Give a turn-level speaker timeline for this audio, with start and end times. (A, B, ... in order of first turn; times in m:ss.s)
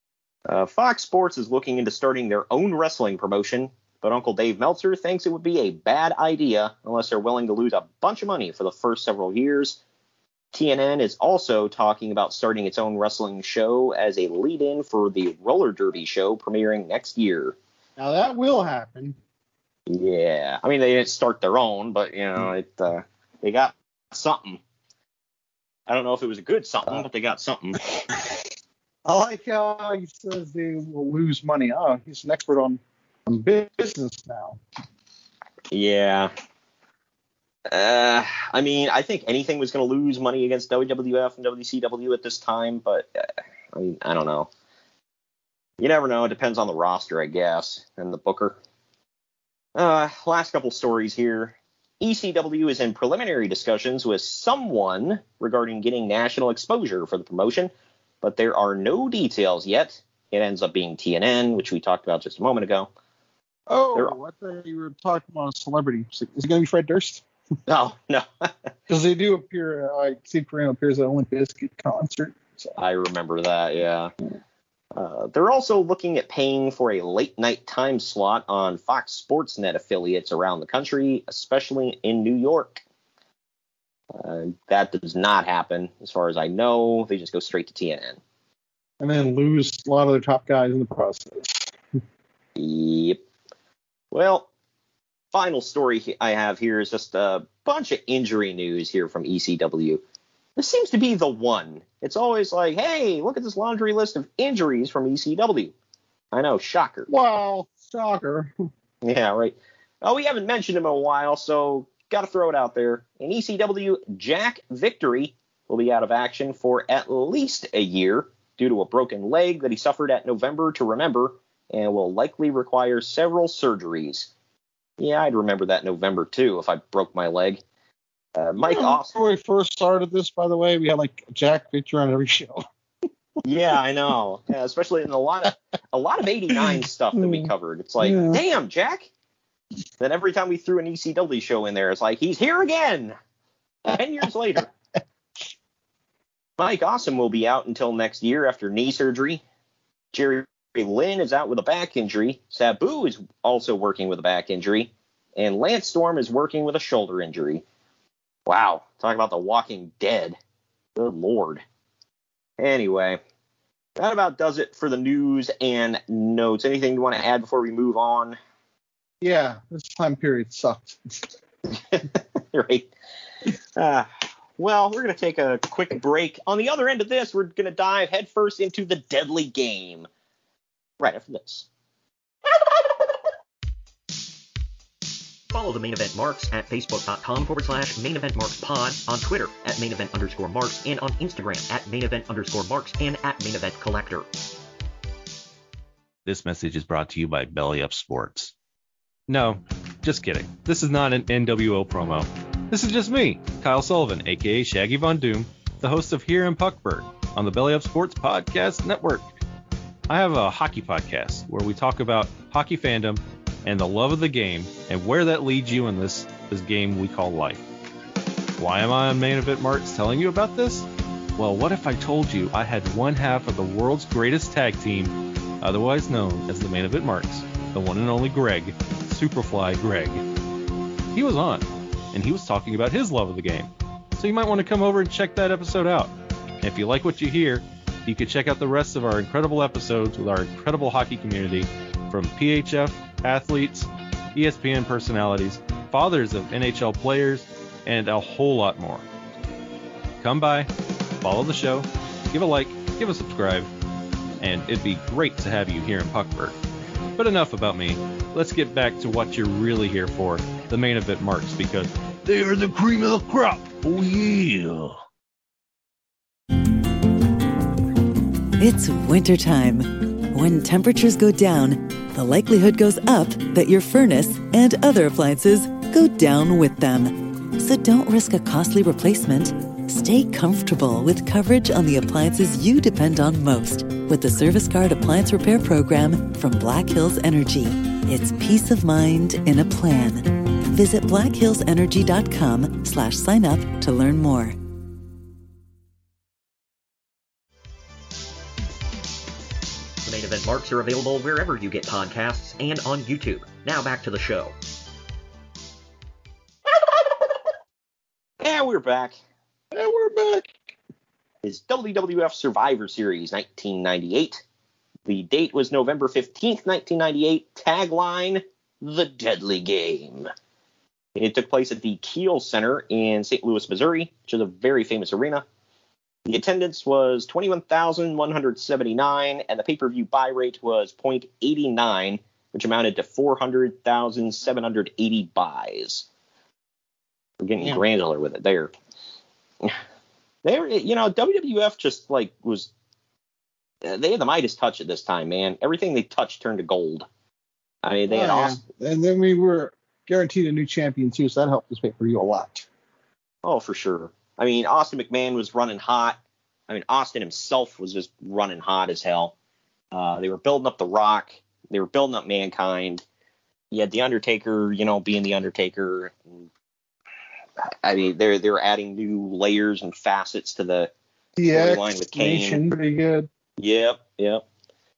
0:00.5-0:09.8 A
0:10.5-0:17.6 A
0:18.0-0:19.2 B
0:19.9-0:24.6 A
0:25.9-0:27.8 A
0:29.0-0:34.6 B
0:35.7-0:36.3 A
0:37.7-0:43.1 A
0:43.7-0:44.5 A
0:45.8-0:48.6 A
0:49.8-0:57.7 A
0:58.2-1:02.9 A
1:03.7-1:07.2 B
1:07.7-1:08.7 A
1:08.9-1:12.7 B
1:12.8-1:14.1 A
1:14.9-1:22.8 A
1:24.1-1:28.2 A
1:29.0-1:31.7 B
1:32.6-1:33.2 A
1:34.1-1:34.5 A
1:35.3-1:40.0 A
1:40.6-1:45.7 A
1:46.3-1:47.1 A
1:47.1-1:48.5 B
1:49.0-2:04.3 A
2:05.0-2:07.6 A
2:08.3-2:09.1 A
2:08.6-2:12.6 B
2:13.4-2:19.1 A
2:16.6-2:18.4 B
2:20.0-2:23.1 A
2:23.9-2:24.7 A
2:26.6-2:29.4 A
2:30.1-2:37.6 A
2:38.4-2:40.4 A
2:41.0-2:41.6 A
2:42.6-2:43.2 A
2:44.0-2:48.4 A
2:49.2-2:51.0 B
2:51.8-2:52.9 A
2:53.8-3:00.1 A
3:01.0-3:01.7 A
3:05.5-3:14.3 C
3:16.2-3:18.5 D
3:19.3-3:29.3 D
3:30.1-3:37.6 D
3:38.6-3:50.2 D
3:51.1-4:09.0 D
4:10.2-4:10.7 D
4:11.2-4:13.7 D
4:14.4-4:16.6 D
4:17.2-4:25.0 D
4:28.6-4:54.6 E
5:00.0-5:04.5 C
5:08.4-5:09.2 A
5:09.7-5:10.7 B
5:11.4-5:14.4 A
5:15.1-5:20.3 A
5:21.2-5:25.4 A
5:26.2-5:36.0 A
5:37.4-5:38.7 A
5:40.4-5:42.7 A
5:43.8-5:47.1 A
5:47.8-5:48.6 A
5:48.1-5:52.7 B
5:53.4-5:59.3 A
5:59.9-6:03.0 A
6:03.7-6:06.5 A
6:07.8-6:10.9 A
6:11.4-6:13.3 B
6:11.5-6:12.6 A
6:13.6-6:14.4 A